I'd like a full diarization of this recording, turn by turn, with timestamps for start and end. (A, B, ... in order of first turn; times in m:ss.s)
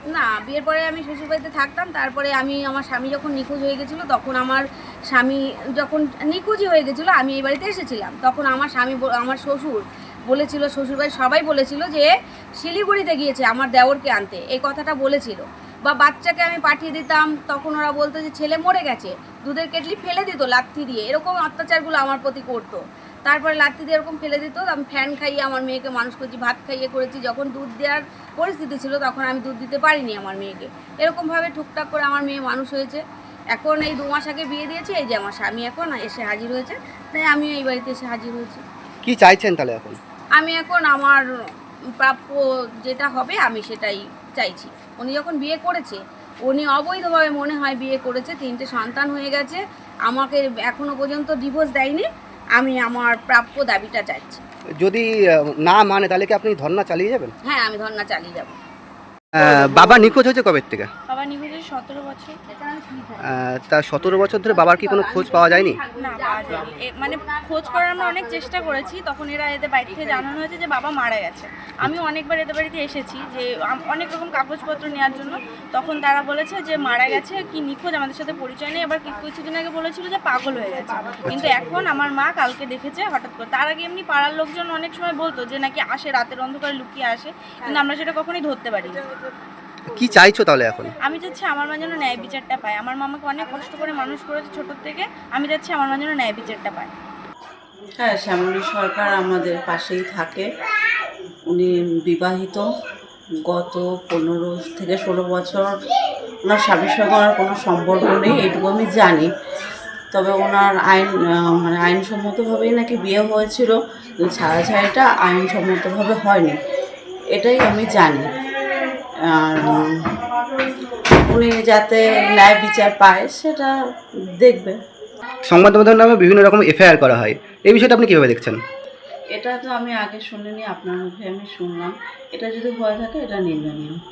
0:00.1-0:33.0 A
0:33.5-0:38.6 A
0:39.0-0:40.0 B
0:40.4-0:41.2 A
0:42.0-0:54.4 A
0:54.8-0:57.3 B
0:57.4-0:58.6 A
0:59.3-1:00.9 B
1:01.1-1:02.4 C
1:02.5-1:03.2 A
1:03.2-1:05.8 B
1:04.5-1:06.8 A
1:06.0-1:29.0 C
1:21.3-1:21.6 B
1:29.9-1:30.9 B
1:31.0-1:36.9 C
1:38.0-1:40.5 D
1:41.5-1:42.6 D
1:43.5-1:45.8 D
1:46.5-1:49.3 D
1:50.1-1:56.6 D
1:57.3-1:58.3 D
1:59.2-2:00.2 D
2:01.2-2:03.8 D
2:04.3-2:04.8 D
2:05.4-2:08.6 B
2:09.3-2:14.0 D